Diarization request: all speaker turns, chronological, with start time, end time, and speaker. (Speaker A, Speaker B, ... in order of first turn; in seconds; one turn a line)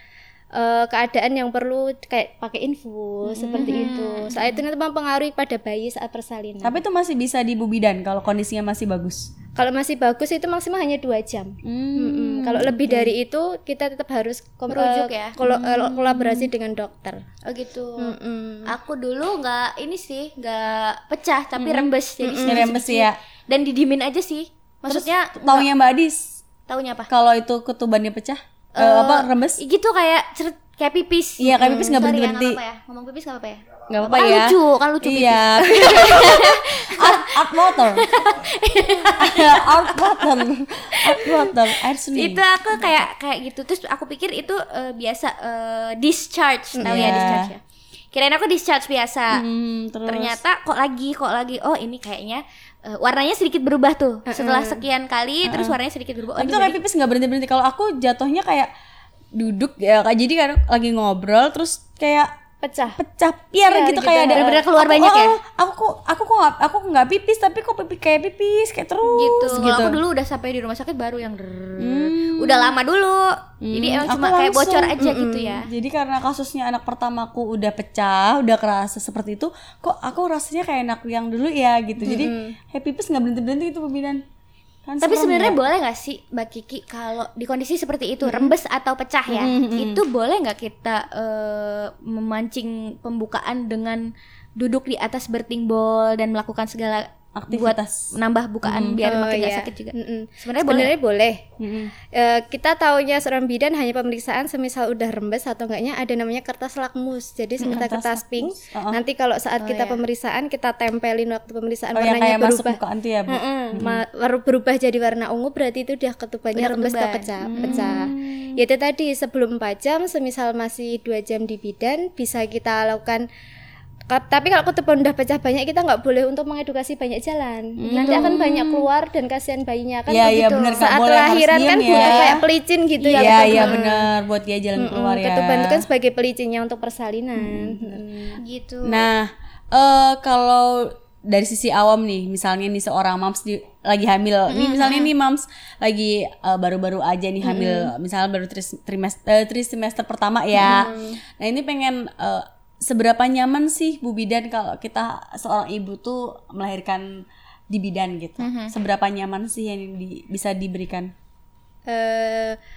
Speaker A: 0.6-6.8
Speaker B: 3.3-3.9
Speaker C: 3.6-4.6
Speaker B: 6.6-9.3
Speaker A: 9.6-17.2
Speaker B: 11.6-13.0
Speaker C: 14.7-15.4
Speaker B: 15.4-16.5
Speaker C: 17.5-18.1
Speaker A: 18.0-18.7
Speaker C: 18.7-25.7
Speaker B: 21.6-21.9
Speaker A: 22.2-22.8
Speaker B: 22.4-23.2
Speaker B: 24.9-26.3
Speaker C: 26.7-27.1
Speaker B: 27.1-29.6
Speaker C: 28.8-40.3
Speaker B: 31.4-32.6
Speaker B: 33.9-38.3
Speaker A: 35.8-36.3
Speaker B: 39.1-43.0
Speaker C: 41.0-47.6
Speaker A: 46.8-47.3
Speaker B: 46.8-47.5
Speaker C: 48.1-49.4
Speaker B: 49.3-50.4
Speaker C: 50.1-56.8
Speaker A: 54.3-54.8
Speaker B: 55.5-55.8
Speaker B: 56.4-58.7
Speaker B: 59.4-62.3
Speaker A: 62.6-63.0
Speaker B: 62.9-70.0
Speaker A: 63.7-64.6
Speaker C: 64.3-65.4
Speaker C: 69.1-75.7
Speaker B: 71.8-72.8
Speaker B: 73.6-75.0
Speaker A: 75.0-75.6
Speaker B: 75.7-84.2
Speaker A: 82.0-82.5
Speaker B: 84.9-85.6
Speaker C: 85.0-100.9
Speaker B: 89.3-90.0
Speaker B: 97.3-98.1
Speaker B: 98.6-99.0
Speaker A: 99.0-101.4
Speaker B: 101.6-101.9
Speaker A: 102.1-123.3
Speaker C: 107.6-107.9
Speaker B: 107.8-109.0
Speaker C: 109.6-110.0
Speaker B: 112.0-114.0
Speaker C: 116.5-118.0
Speaker B: 117.4-118.6
Speaker A: 124.1-134.1
Speaker B: 127.8-128.9
Speaker C: 127.9-128.4
Speaker B: 130.1-132.4
Speaker C: 130.2-130.8
Speaker C: 131.9-132.4
Speaker C: 133.0-133.8
Speaker B: 133.2-135.9
Speaker A: 134.8-138.4
Speaker B: 137.4-138.0
Speaker C: 138.4-139.1
Speaker B: 138.8-161.1
Speaker C: 144.5-145.1
Speaker A: 147.5-147.9
Speaker C: 150.6-150.9
Speaker A: 150.6-151.2
Speaker C: 158.4-158.7
Speaker A: 161.9-162.6